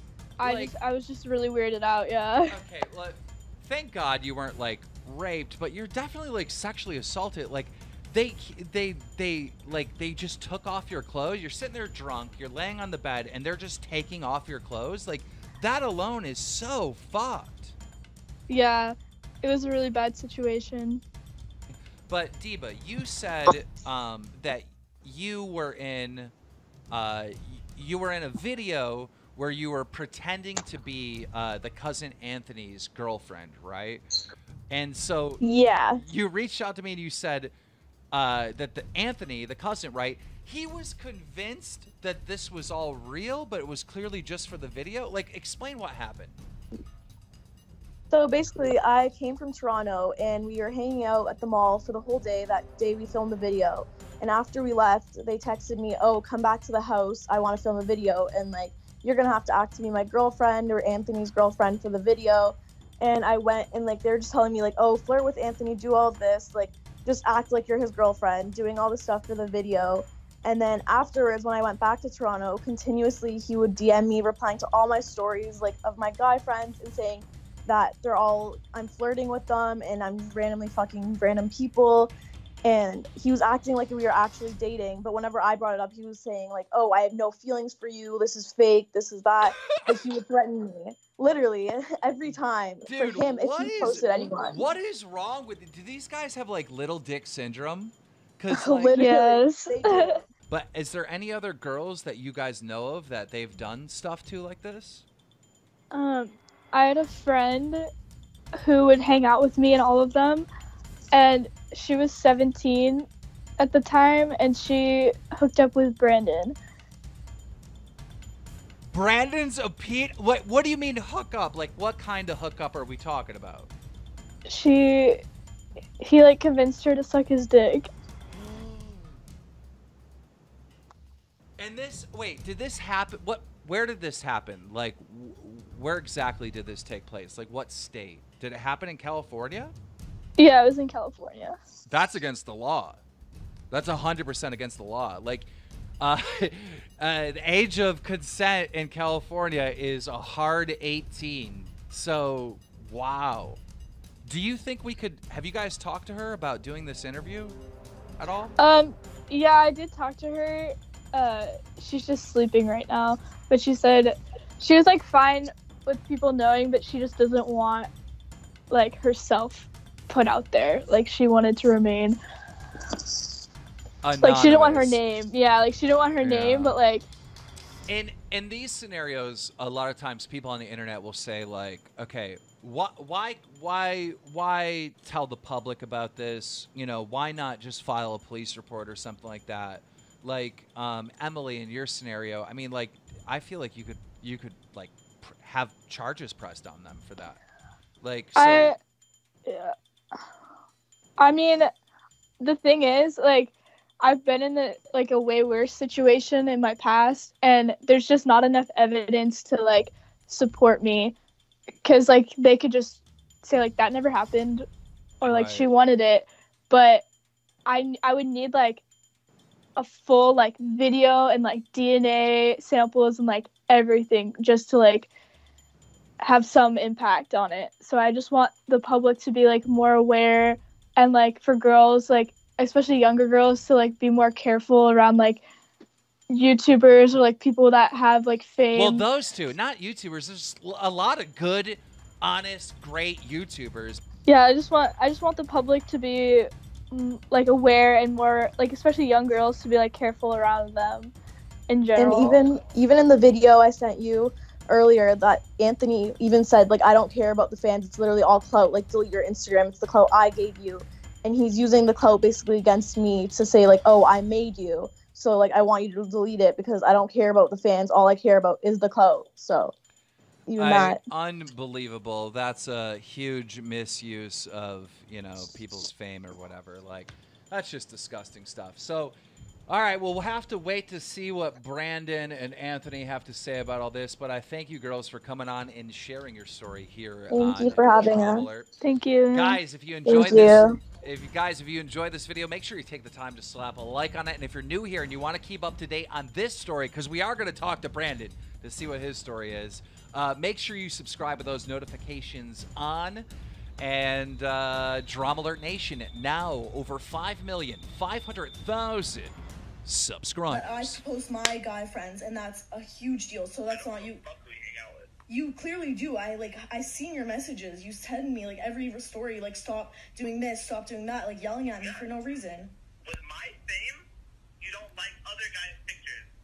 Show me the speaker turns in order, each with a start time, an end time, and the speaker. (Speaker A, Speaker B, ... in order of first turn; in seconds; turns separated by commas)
Speaker A: 0.4-2.6, Speaker B: 0.4-0.7, Speaker B: 2.5-17.7, Speaker A: 18.5-21.0, Speaker B: 22.1-26.3, Speaker B: 26.9-34.0, Speaker B: 34.7-37.5, Speaker C: 35.4-36.0, Speaker B: 38.1-46.4, Speaker C: 48.1-82.1, Speaker C: 82.6-94.7, Speaker B: 92.8-99.0, Speaker C: 98.5-100.2, Speaker A: 98.9-100.1, Speaker B: 100.5-105.0, Speaker A: 105.9-107.8, Speaker A: 108.6-110.5, Speaker A: 111.1-113.1, Speaker A: 113.6-116.6, Speaker B: 118.9-123.7, Speaker A: 124.5-125.2, Speaker A: 126.0-127.9, Speaker B: 128.3-129.2, Speaker B: 131.6-139.7, Speaker A: 140.4-141.5, Speaker B: 141.9-143.0, Speaker B: 143.7-145.5, Speaker B: 146.0-153.6, Speaker B: 154.2-157.6, Speaker B: 158.2-158.6, Speaker A: 158.6-167.9, Speaker A: 168.7-172.2, Speaker B: 174.0-175.0, Speaker A: 174.2-177.1, Speaker B: 176.2-176.8, Speaker B: 177.9-197.4, Speaker B: 198.0-198.7, Speaker A: 198.3-198.8, Speaker A: 199.4-199.7, Speaker A: 201.2-201.7, Speaker A: 202.4-211.1, Speaker A: 211.8-214.6, Speaker A: 215.2-217.0, Speaker B: 215.2-215.7, Speaker A: 217.6-218.8, Speaker A: 219.8-225.1, Speaker A: 226.2-235.4, Speaker A: 236.3-239.1, Speaker B: 238.7-244.0, Speaker A: 244.2-251.1, Speaker A: 251.7-252.4, Speaker C: 251.9-269.7, Speaker C: 270.5-271.0, Speaker B: 270.6-279.1, Speaker B: 279.7-288.7, Speaker C: 287.3-288.5, Speaker A: 288.8-289.6, Speaker B: 289.3-303.2, Speaker C: 290.1-290.8, Speaker B: 303.8-311.0, Speaker D: 310.5-314.3, Speaker C: 311.4-312.0, Speaker E: 313.7-315.1, Speaker D: 315.3-322.7, Speaker C: 318.1-319.5, Speaker E: 323.0-324.0, Speaker E: 324.6-326.3